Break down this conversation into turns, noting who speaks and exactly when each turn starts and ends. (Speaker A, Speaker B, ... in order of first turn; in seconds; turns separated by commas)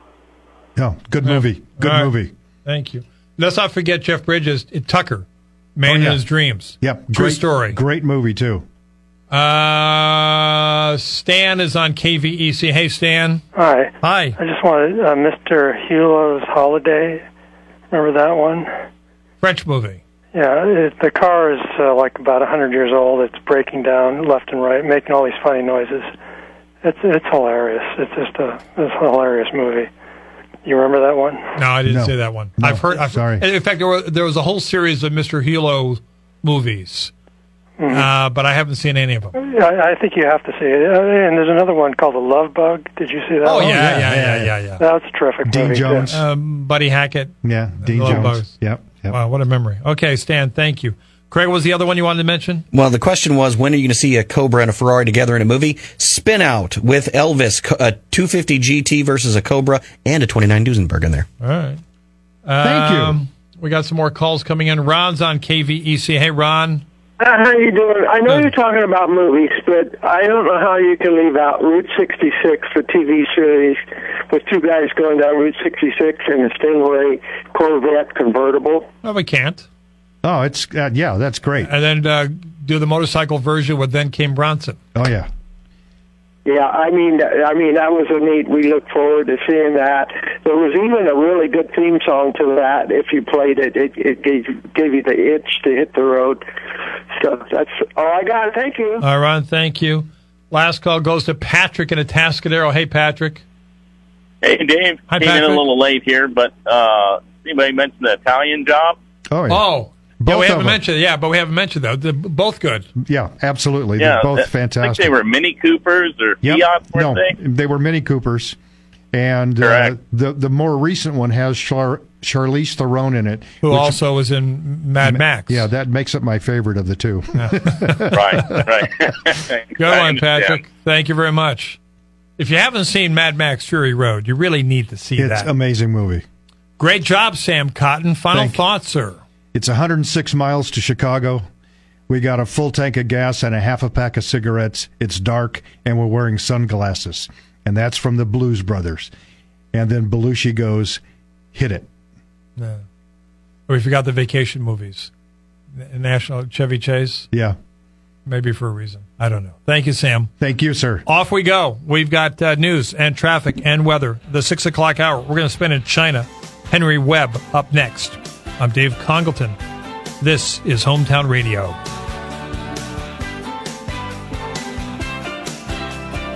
Speaker A: 0.8-2.3, Speaker B: 1.2-2.1, Speaker B: 2.6-7.8, Speaker A: 5.8-6.2, Speaker A: 6.8-8.7, Speaker B: 9.3-13.4, Speaker C: 13.6-17.2, Speaker B: 14.0-14.4, Speaker C: 17.9-18.7, Speaker B: 19.4-20.0, Speaker C: 20.3-26.1, Speaker C: 26.8-29.9, Speaker C: 30.6-31.6, Speaker B: 31.6-37.1, Speaker A: 31.9-33.5, Speaker C: 37.8-38.1, Speaker B: 37.9-39.3, Speaker C: 39.4-44.0, Speaker B: 43.4-44.8, Speaker A: 43.5-44.6, Speaker C: 44.8-46.1, Speaker A: 45.5-46.2, Speaker B: 46.1-48.5, Speaker A: 47.4-49.2, Speaker B: 49.1-52.6, Speaker D: 52.7-61.3, Speaker B: 61.4-61.8, Speaker B: 62.5-66.8, Speaker A: 62.6-63.2, Speaker E: 67.2-78.9, Speaker B: 79.0-79.7, Speaker A: 80.2-81.7, Speaker B: 81.6-84.8, Speaker A: 85.0-85.3, Speaker E: 86.5-96.4, Speaker E: 97.1-99.0, Speaker B: 99.0-103.4, Speaker F: 104.4-109.0, Speaker B: 105.1-105.7, Speaker A: 109.3-109.7, Speaker B: 109.5-112.9, Speaker A: 110.2-110.8, Speaker A: 113.0-115.2, Speaker F: 114.0-117.3, Speaker A: 116.4-118.6, Speaker A: 119.1-124.0, Speaker F: 119.6-119.9, Speaker B: 123.6-125.7, Speaker A: 125.0-128.6, Speaker B: 127.4-128.6, Speaker F: 128.1-130.6, Speaker B: 129.8-131.8, Speaker B: 132.4-135.5, Speaker A: 135.2-136.2, Speaker B: 136.8-139.2, Speaker A: 138.3-138.6, Speaker A: 139.5-141.5, Speaker A: 142.1-149.1, Speaker A: 149.7-151.0, Speaker A: 151.5-151.9, Speaker B: 152.6-152.8, Speaker B: 153.7-155.1, Speaker B: 155.8-157.3, Speaker B: 158.3-160.3, Speaker A: 160.4-161.1, Speaker B: 161.1-169.6, Speaker B: 170.2-171.8